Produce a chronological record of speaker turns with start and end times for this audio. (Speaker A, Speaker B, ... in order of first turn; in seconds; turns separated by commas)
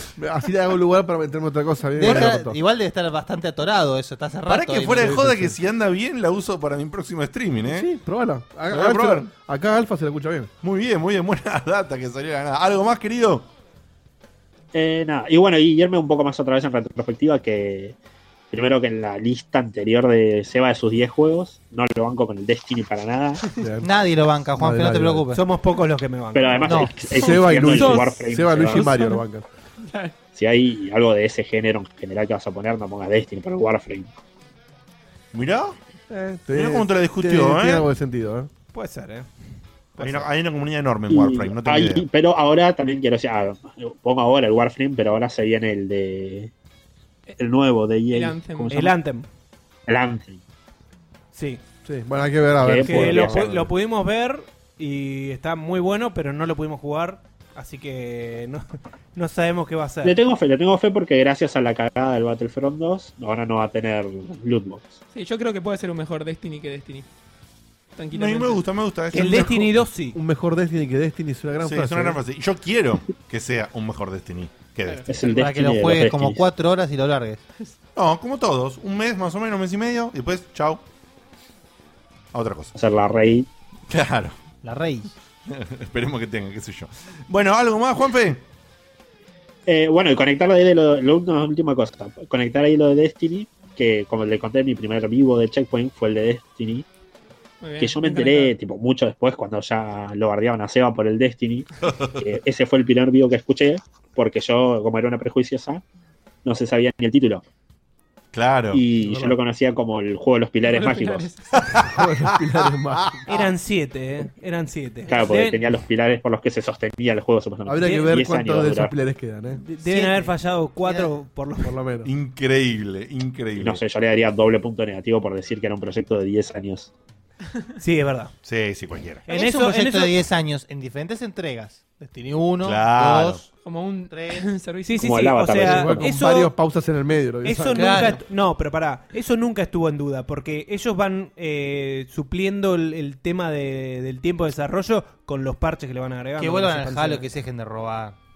Speaker A: 0.2-2.6, Speaker B: 2.0-5.3, Speaker C: 2.0-2.3, Speaker C: 4.5-7.9, Speaker A: 5.0-5.5, Speaker A: 7.6-10.5, Speaker C: 8.7-9.3, Speaker C: 10.6-13.5, Speaker D: 14.7-18.0, Speaker D: 18.5-23.4, Speaker A: 23.5-23.9, Speaker B: 23.8-25.4, Speaker A: 24.6-25.3, Speaker E: 25.3-26.9, Speaker D: 26.3-29.0, Speaker B: 26.6-26.9, Speaker A: 27.1-29.4, Speaker F: 27.1-29.2, Speaker F: 29.9-30.1, Speaker D: 30.3-34.1, Speaker C: 35.3-35.8, Speaker A: 36.1-38.5, Speaker C: 36.5-37.9, Speaker E: 38.7-39.3, Speaker C: 40.0-42.1, Speaker D: 41.1-46.5, Speaker D: 47.4-49.0, Speaker F: 48.1-48.8, Speaker E: 48.7-49.3, Speaker D: 49.9-50.4, Speaker E: 51.3-51.6, Speaker A: 51.9-53.7, Speaker D: 52.6-53.5, Speaker E: 52.7-60.2, Speaker D: 60.0-65.0, Speaker F: 65.1-67.1, Speaker F: 68.0-68.6, Speaker C: 68.1-69.7, Speaker E: 69.1-70.2, Speaker A: 70.1-72.2, Speaker C: 71.6-75.2, Speaker F: 74.8-75.4, Speaker D: 75.1-76.5, Speaker B: 75.3-77.4, Speaker C: 78.0-80.8, Speaker C: 82.3-82.8, Speaker D: 82.8-83.5, Speaker C: 83.9-84.3, Speaker B: 84.6-85.1, Speaker C: 85.5-88.4, Speaker D: 89.7-96.9, Speaker F: 97.6-98.6, Speaker D: 97.8-101.7, Speaker C: 101.8-102.2, Speaker D: 102.2-105.8, Speaker D: 106.5-107.4, Speaker C: 108.3-108.8, Speaker D: 108.7-111.3, Speaker A: 109.0-109.4, Speaker F: 110.6-111.5, Speaker C: 111.6-111.9, Speaker A: 111.8-113.2, Speaker E: 113.3-115.7, Speaker D: 115.1-118.9, Speaker A: 117.7-119.6, Speaker E: 119.5-121.8, Speaker B: 119.8-121.1, Speaker A: 121.6-122.1, Speaker C: 122.0-123.8, Speaker D: 123.6-126.9, Speaker E: 127.8-128.3, Speaker C: 128.4-129.3, Speaker E: 129.3-130.2, Speaker B: 129.3-133.4, Speaker C: 132.6-133.5, Speaker F: 133.6-135.5, Speaker B: 134.1-134.5, Speaker E: 134.8-136.5, Speaker D: 135.0-136.0, Speaker A: 135.6-138.2, Speaker E: 137.4-147.3, Speaker B: 137.7-138.2, Speaker B: 146.4-148.2